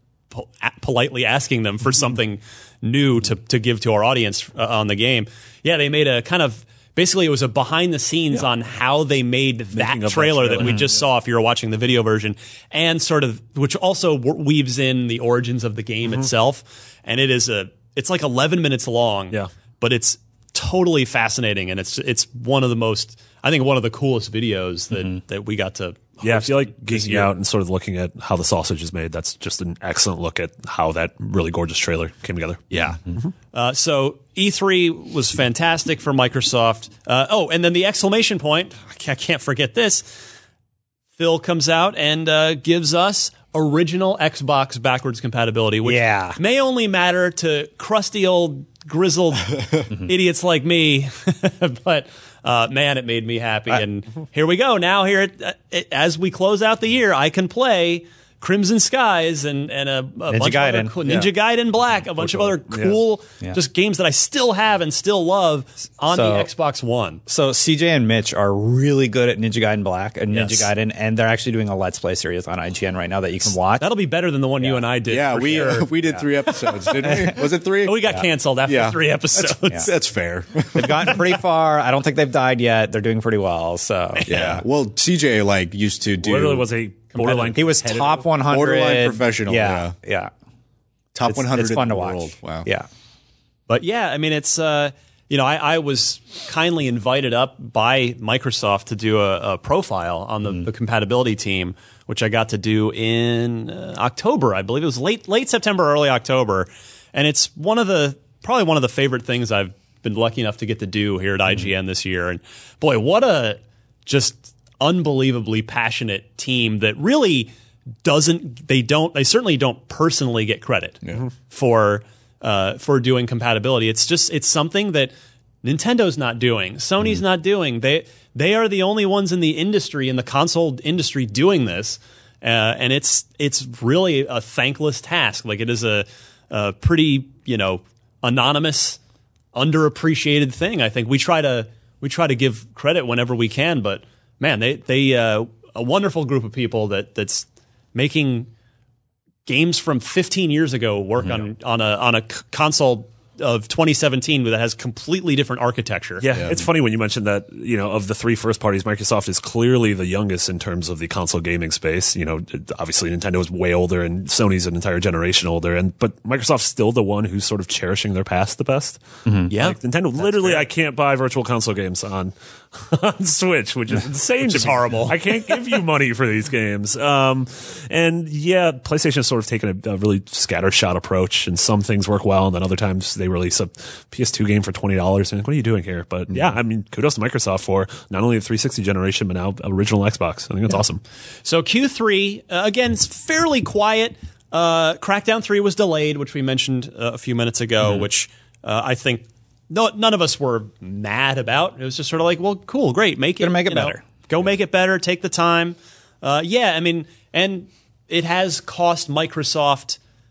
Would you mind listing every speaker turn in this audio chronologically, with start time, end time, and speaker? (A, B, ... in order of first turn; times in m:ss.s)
0:00.3-0:27.3 A
0:09.7-0:11.0 B
0:10.6-0:10.9 C
0:26.2-0:33.3 B
0:32.7-0:33.0 A
0:33.5-0:40.1 A
0:41.2-1:07.2 A
0:45.8-0:46.4 C
0:49.6-0:49.9 D
1:00.3-1:00.9 C
1:02.0-1:03.0 B
1:06.1-1:06.5 C
1:07.3-1:13.9 C
1:10.3-1:10.7 A
1:13.8-1:15.9 A
1:14.6-1:14.8 C
1:15.1-1:21.4 D
1:16.0-1:17.4 C
1:17.8-1:19.9 A
1:20.7-1:24.6 C
1:24.1-1:24.6 A
1:24.3-1:26.7 D
1:26.2-1:28.3 B
1:27.1-1:27.6 A
1:27.5-1:30.3 C
1:28.4-1:29.9 D
1:31.1-1:32.7 D
1:31.2-1:32.9 C
1:33.7-1:57.5 A
1:58.0-2:05.1 A
2:05.6-2:19.0 A
2:19.5-2:28.5 A
2:29.4-2:36.2 A
2:36.2-3:11.0 B
2:49.5-2:50.7 A
2:54.5-2:55.5 A
3:11.4-3:30.0 A
3:23.4-3:24.0 C